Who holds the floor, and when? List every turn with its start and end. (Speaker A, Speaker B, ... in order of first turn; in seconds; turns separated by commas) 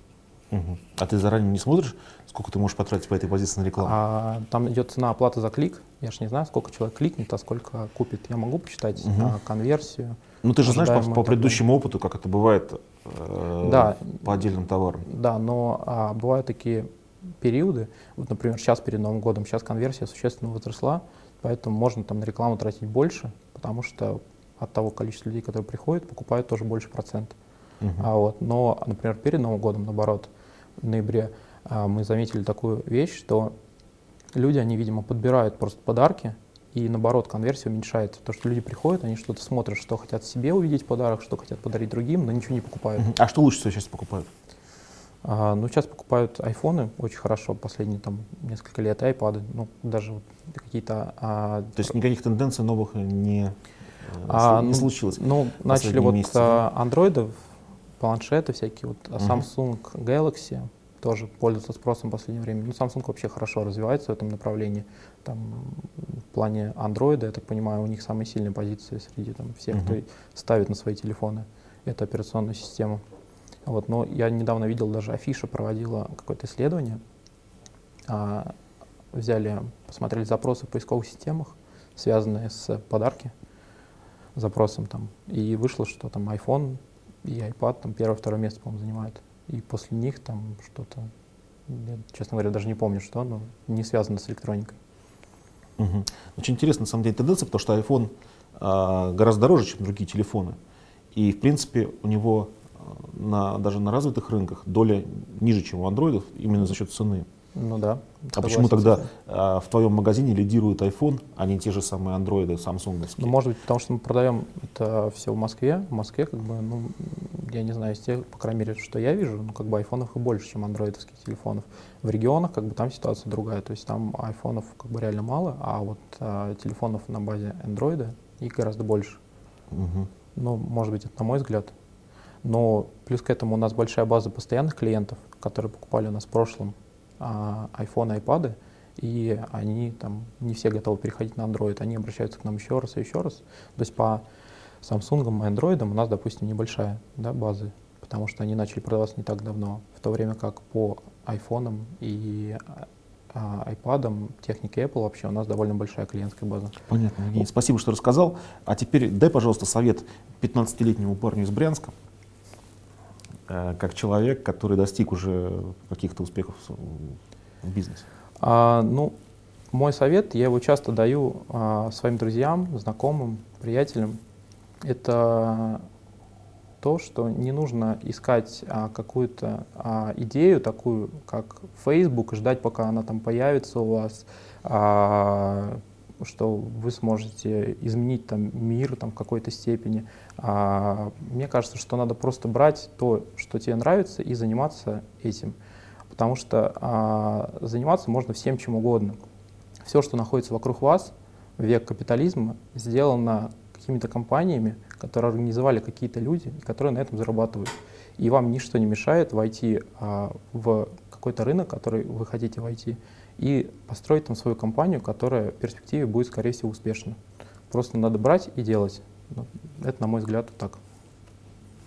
Speaker A: 0.5-4.0, Speaker B: 3.8-11.6, Speaker A: 9.0-9.3, Speaker A: 10.4-15.1, Speaker B: 13.6-14.2, Speaker B: 15.1-16.9, Speaker B: 17.4-27.3, Speaker A: 27.8-28.1, Speaker B: 28.0-33.5, Speaker B: 34.3-43.1, Speaker A: 43.0-44.3, Speaker B: 45.2-51.9, Speaker A: 51.8-53.5, Speaker A: 54.1-56.6, Speaker B: 54.2-57.4, Speaker B: 58.0-73.0, Speaker A: 59.2-59.4, Speaker A: 69.7-70.0, Speaker B: 73.7-77.0, Speaker B: 78.1-78.5, Speaker B: 79.1-83.3, Speaker B: 84.4-91.1, Speaker B: 91.7-94.8, Speaker A: 95.8-100.6, Speaker A: 101.1-107.3, Speaker B: 107.5-109.1, Speaker A: 108.4-113.3, Speaker B: 113.2-129.2, Speaker A: 129.7-130.1, Speaker B: 130.4-131.7, Speaker B: 132.4-144.2, Speaker B: 144.8-156.8, Speaker A: 156.9-161.9, Speaker A: 163.5-168.0, Speaker B: 168.4-169.1, Speaker B: 169.7-174.2, Speaker B: 174.8-175.8, Speaker B: 176.8-195.5, Speaker B: 196.1-199.2, Speaker B: 199.8-217.2, Speaker B: 217.7-220.8